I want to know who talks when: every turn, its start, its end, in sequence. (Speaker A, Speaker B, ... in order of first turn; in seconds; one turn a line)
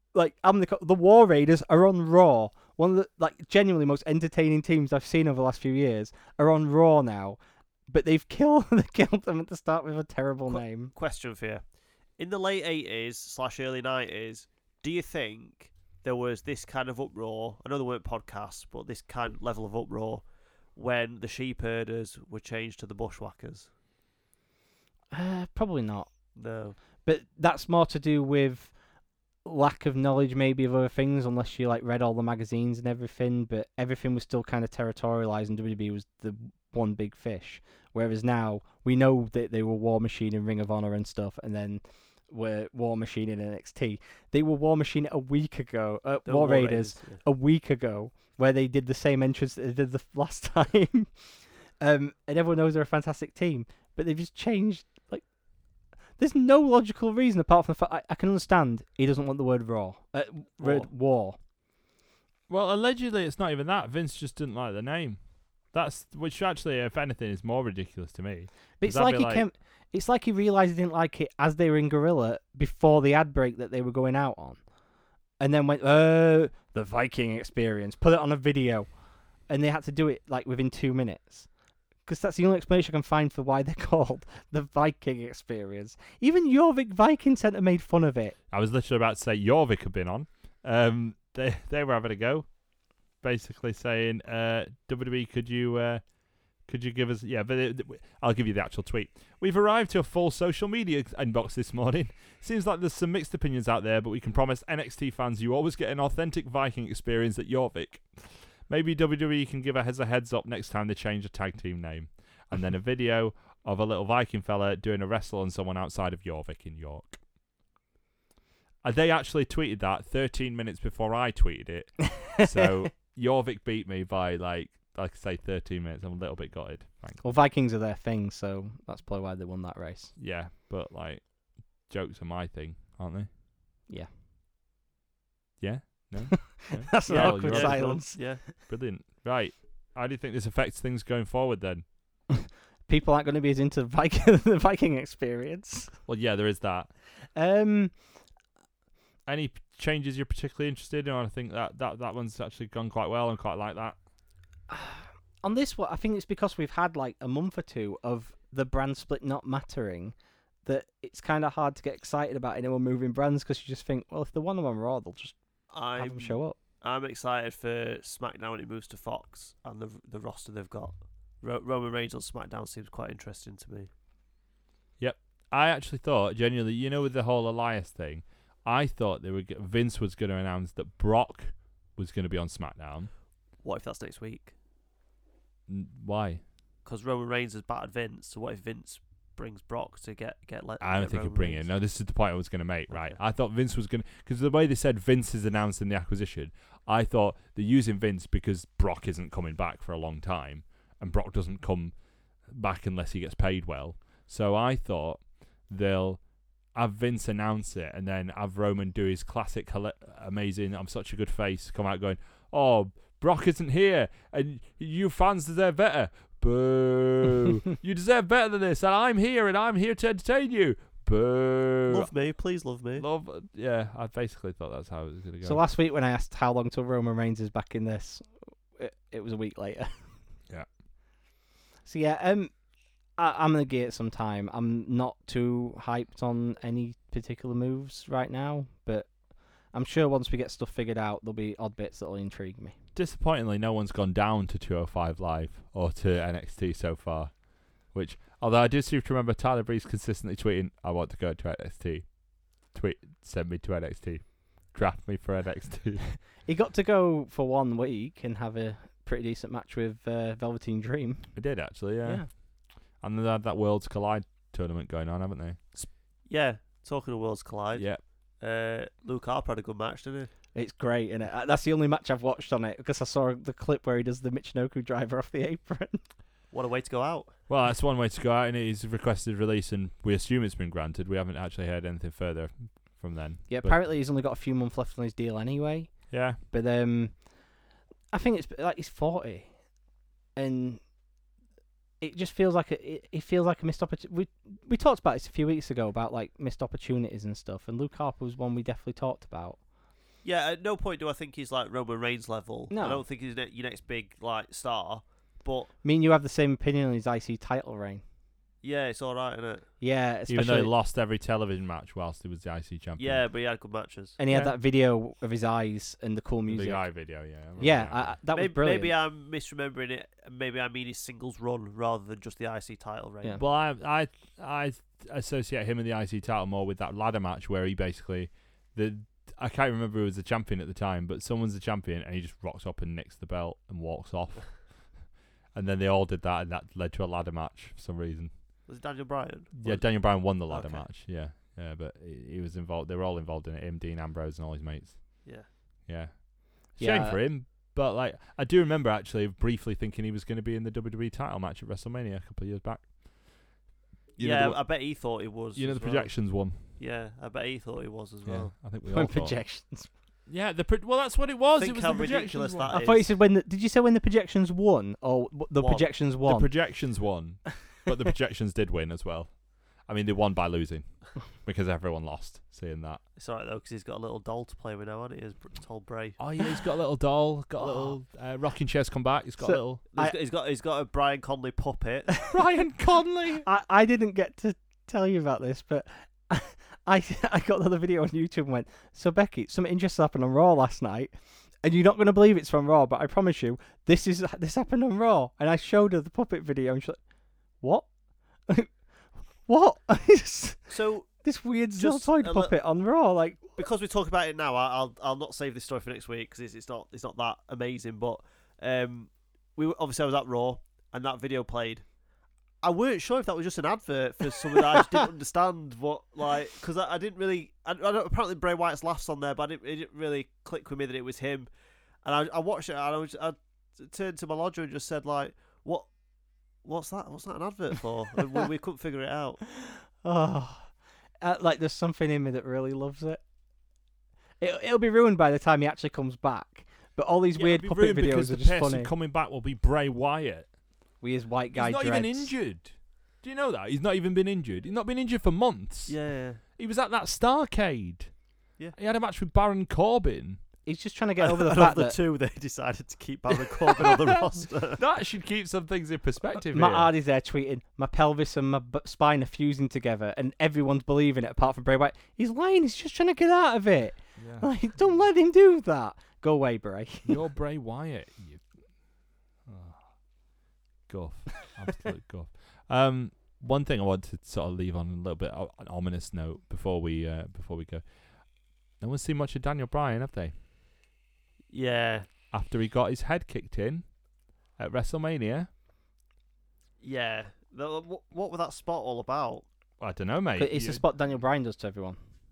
Speaker A: 0.1-7.4
Speaker A: 7.9-10.9
Speaker B: 10.5-11.6
Speaker B: 12.2-23.7
Speaker A: 25.1-26.1
Speaker B: 26.4-26.8
Speaker A: 27.0-28.7
Speaker A: 29.4-51.1
Speaker B: 46.2-47.2
Speaker A: 51.8-55.3
Speaker A: 56.2-61.4
Speaker B: 60.6-60.9
Speaker C: 62.5-69.4
Speaker A: 68.8-74.6
Speaker A: 75.4-78.9
Speaker A: 79.5-81.5
Speaker A: 82.1-88.4
Speaker C: 88.5-92.5
Speaker C: 93.2-96.0
Speaker C: 96.6-117.2
Speaker C: 118.8-127.2
Speaker A: 122.2-122.9
Speaker A: 127.2-130.1
Speaker C: 130.2-133.3
Speaker C: 135.6-141.8
Speaker A: 136.3-138.2
Speaker B: 137.1-138.4
Speaker A: 142.3-145.9
Speaker C: 146.1-146.9
Speaker A: 147.3-147.9
Speaker C: 149.3-154.0
Speaker A: 154.7-165.4
Speaker B: 165.7-173.9
Speaker A: 165.9-166.6
Speaker C: 175.0-183.1
Speaker B: 183.6-184.6
Speaker C: 185.7-186.4
Speaker B: 186.8-191.7
Speaker C: 190.8-222.1
Speaker B: 192.9-193.2
Speaker B: 221.9-223.1
Speaker C: 223.0-225.6
Speaker A: 225.4-229.9
Speaker A: 231.8-232.5
Speaker A: 233.2-239.1
Speaker A: 239.7-242.7
Speaker C: 242.9-256.1
Speaker A: 256.4-261.4
Speaker C: 261.4-262.5
Speaker C: 263.0-265.8
Speaker B: 266.3-270.3
Speaker C: 267.7-268.0
Speaker A: 270.6-276.0
Speaker B: 276.5-277.3
Speaker C: 277.5-283.8
Speaker A: 283.5-287.2
Speaker C: 286.1-286.4
Speaker A: 288.1-289.5
Speaker A: 290.4-290.8
Speaker A: 292.0-299.6
Speaker B: 300.2-305.7
Speaker A: 302.7-303.0
Speaker A: 305.8-308.0
Speaker B: 308.6-309.6
Speaker A: 309.8-310.7
Speaker C: 310.3-313.2
Speaker B: 313.0-314.2
Speaker A: 314.2-316.9
Speaker C: 314.3-314.6
Speaker C: 316.5-318.2
Speaker A: 317.6-318.9
Speaker B: 318.4-323.4
Speaker C: 323.4-334.7
Speaker C: 335.5-338.3
Speaker B: 338.7-340.8
Speaker C: 339.6-345.2
Speaker C: 345.9-352.9
Speaker A: 346.8-347.2
Speaker C: 354.2-354.6
Speaker B: 354.2-358.5
Speaker C: 355.6-356.6
Speaker C: 358.3-359.4
Speaker A: 358.9-359.9
Speaker C: 360.3-362.8
Speaker B: 361.6-363.1
Speaker A: 362.7-366.5
Speaker B: 365.6-365.9
Speaker C: 366.2-373.0
Speaker B: 373.2-376.3
Speaker C: 376.2-379.8
Speaker A: 379.4-380.1
Speaker B: 379.9-382.1
Speaker C: 382.3-383.5
Speaker A: 383.4-397.0
Speaker A: 397.6-397.9
Speaker A: 399.5-400.7
Speaker B: 400.7-401.3
Speaker A: 401.2-403.5
Speaker B: 401.8-402.5
Speaker B: 403.6-411.9
Speaker B: 412.6-421.5
Speaker B: 422.0-425.9
Speaker B: 426.6-429.4
Speaker A: 429.7-430.7
Speaker A: 431.2-433.2
Speaker A: 434.4-438.9
Speaker C: 437.4-440.5
Speaker A: 441.0-442.4
Speaker C: 441.6-446.0
Speaker B: 445.9-446.4
Speaker C: 446.6-448.1
Speaker C: 448.8-450.4
Speaker A: 450.7-452.0
Speaker B: 451.2-454.8
Speaker C: 453.5-456.9
Speaker A: 456.5-467.2
Speaker C: 464.2-464.5
Speaker C: 467.1-468.5
Speaker C: 469.4-469.9
Speaker C: 470.9-477.9
Speaker C: 478.7-480.3
Speaker B: 481.5-482.1
Speaker C: 482.3-483.9
Speaker C: 484.6-485.5
Speaker B: 486.8-489.5
Speaker C: 489.8-490.8
Speaker A: 490.4-492.0